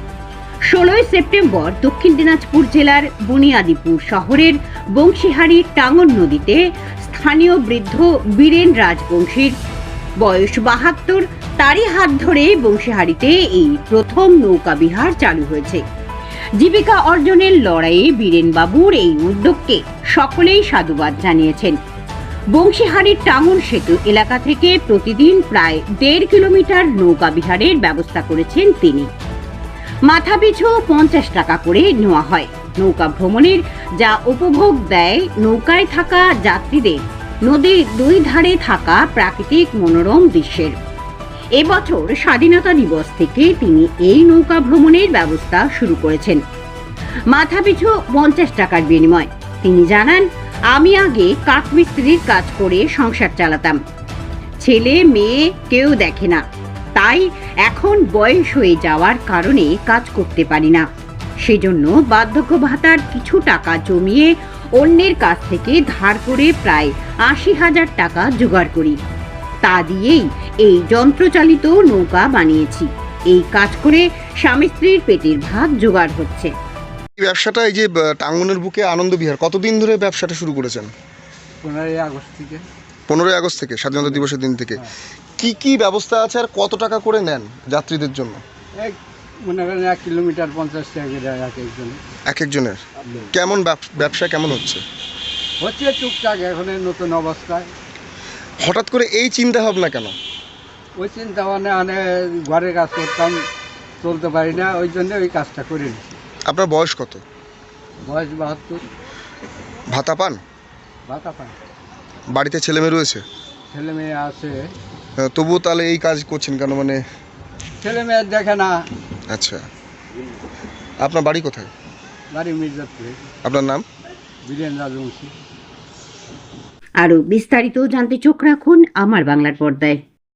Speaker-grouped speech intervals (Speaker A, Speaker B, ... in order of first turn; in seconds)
Speaker A: 0.7-9.5, 10.2-15.8, 16.6-21.8, 22.5-29.1, 30.1-40.8, 41.6-46.4, 47.3-53.8, 54.6-56.4, 57.0-60.8, 61.4-69.0, 69.6-76.5, 127.0-130.0
Speaker B: 77.2-80.9, 83.1-84.8, 85.4-88.4, 92.2-94.8, 98.6-100.1, 106.5-107.2, 109.9-110.4, 112.3-113.2, 115.2-117.0, 119.3-119.6, 121.0-121.7, 123.4-123.8
Speaker C: 81.6-82.6, 84.0-84.9, 88.8-92.0, 93.0-93.3, 95.6-97.7, 101.0-103.4, 104.0-106.2, 108.0-108.8, 111.1-111.5, 113.7-114.7, 117.8-118.7, 122.3-123.3, 124.5-125.3